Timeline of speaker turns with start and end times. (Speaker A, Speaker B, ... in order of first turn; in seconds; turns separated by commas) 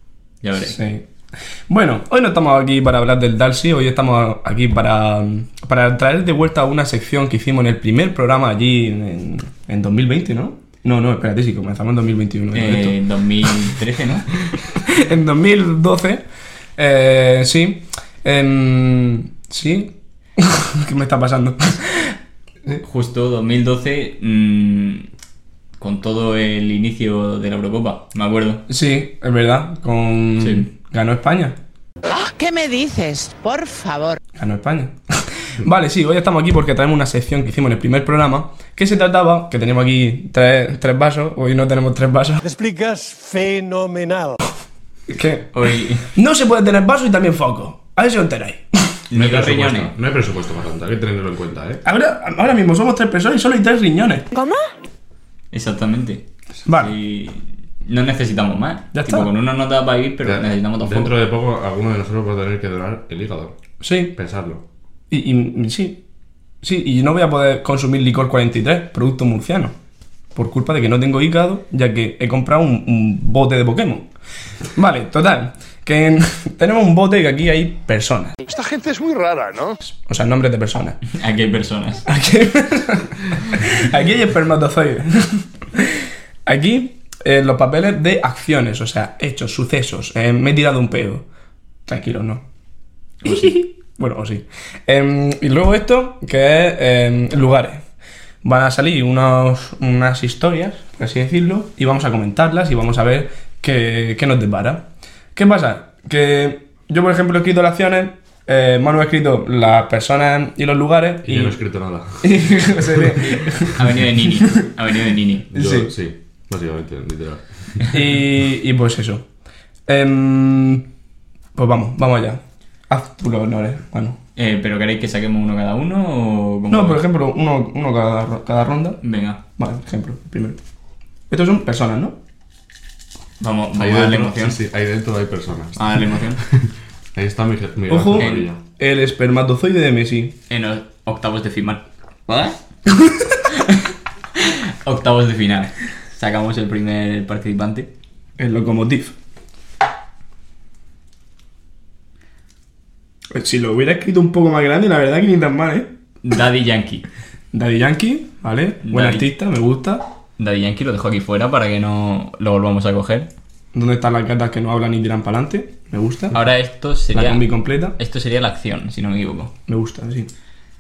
Speaker A: 0.4-0.8, Speaker B: 0.6-1.1, Speaker B: 1.7-13.0, Speaker A: 12.5-14.3, Speaker B: 14.7-16.2, Speaker B: 16.8-22.1, Speaker A: 22.8-25.1, Speaker A: 25.8-28.6, Speaker B: 28.7-31.6, Speaker A: 30.4-30.7, Speaker C: 32.1-34.2, Speaker B: 34.4-42.4, Speaker D: 42.4-44.4, Speaker B: 45.1-45.5, Speaker A: 45.5-46.1, Speaker B: 46.1-49.0, Speaker A: 49.1-49.9, Speaker E: 49.1-51.8, Speaker B: 51.8-54.3, Speaker A: 55.5-61.1, Speaker B: 56.7-56.9, Speaker B: 58.9-59.3, Speaker E: 60.2-63.5, Speaker B: 63.8-64.1, Speaker E: 64.2-64.6, Speaker B: 65.1-66.0, Speaker B: 66.6-69.7, Speaker B: 70.3-74.1, Speaker B: 74.8-78.4, Speaker D: 78.5-79.8, Speaker B: 79.8-81.0, Speaker A: 81.1-82.0, Speaker B: 82.1-91.2, Speaker B: 91.9-92.4, Speaker B: 93.2-97.8, Speaker B: 98.4-111.6, Speaker E: 111.2-113.2, Speaker B: 112.2-113.8, Speaker A: 113.2-115.5, Speaker B: 115.5-115.9, Speaker E: 115.5-117.9, Speaker B: 117.9-119.2, Speaker B: 119.9-120.9, Speaker B: 121.5-124.2, Speaker A: 124.4-127.0, Speaker B: 126.7-129.0, Speaker A: 129.0-129.4, Speaker B: 129.6-130.6, Speaker B: 131.3-132.2, Speaker A: 133.4-134.6, Speaker E: 133.8-138.6, Speaker A: 135.8-136.4, Speaker B: 137.9-140.4, Speaker A: 138.2-138.5, Speaker A: 140.5-142.6, Speaker A: 143.5-147.9, Speaker B: 148.4-149.1, Speaker B: 153.3-155.9, Speaker A: 156.2-157.0, Speaker B: 157.5-160.0, Speaker A: 158.8-159.3, Speaker A: 160.4-163.3, Speaker B: 163.7-166.4, Speaker A: 166.3-167.4, Speaker B: 167.1-168.0, Speaker A: 168.0-169.5, Speaker B: 169.7-170.3